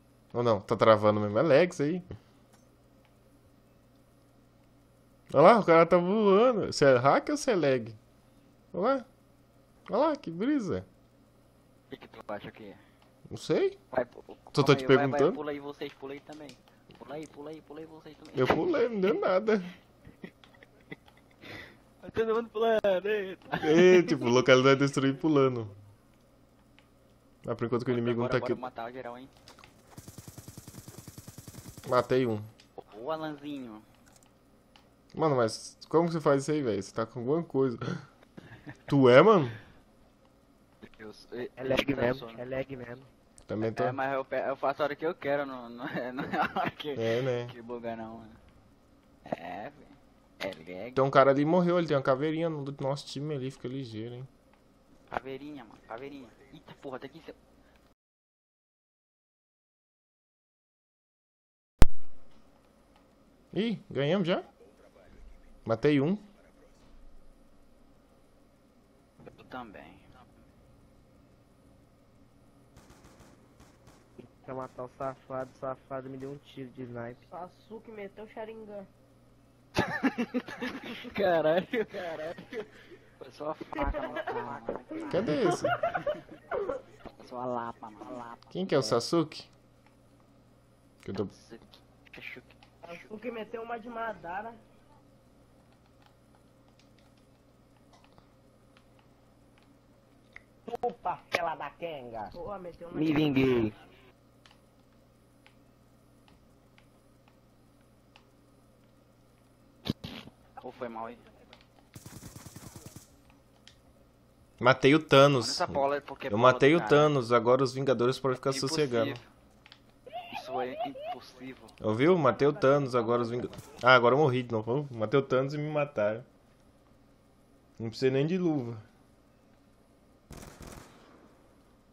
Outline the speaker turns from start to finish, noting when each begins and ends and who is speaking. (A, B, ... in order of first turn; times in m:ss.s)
0:00.3-0:02.0 A
0:05.3-0:08.0 A
0:08.7-0:09.1 A
0:09.9-0:10.9 A
0:11.9-0:12.8 B
0:13.3-0:13.8 A
0:13.9-0:19.2 B
0:14.5-0:15.4 A
0:18.4-0:19.8 A
0:22.0-0:24.2 B
0:23.6-0:25.8 A
0:27.4-0:28.6 A
0:27.9-0:29.3 B
0:31.8-0:32.5 A
0:32.8-0:33.8 B
0:35.1-0:38.0 A
0:38.9-0:39.6 A
0:40.8-0:42.4 B
0:41.6-0:43.1 C
0:43.5-0:44.0 A
0:43.6-0:48.4 B
0:47.0-0:47.5 A
0:49.2-0:51.0 B
0:51.0-0:54.3 A
0:55.1-0:57.4 B
1:03.5-1:04.5 A
1:05.6-1:06.3 A
1:09.3-1:10.1 B
1:14.2-1:17.3 C
1:17.3-1:18.9 D
1:19.8-1:22.3 B
1:23.2-1:25.5 B
1:23.8-1:24.1 D
1:25.0-1:25.8 D
1:25.1-1:25.8 A
1:27.2-1:28.3 B
1:28.2-1:28.9 C
1:28.5-1:29.5 A
1:31.0-1:31.3 A
1:31.1-1:33.0 B
1:32.8-1:34.6 D
1:40.7-1:42.3 C
1:42.3-1:43.5 D
1:42.9-1:43.8 C
1:50.6-1:51.2 B
1:54.6-1:59.2 A
1:55.4-1:57.1 B
1:58.4-1:59.2 B
2:00.3-2:01.8 B
2:01.8-2:06.3 A
2:02.2-2:03.5 D
2:07.8-2:08.8 A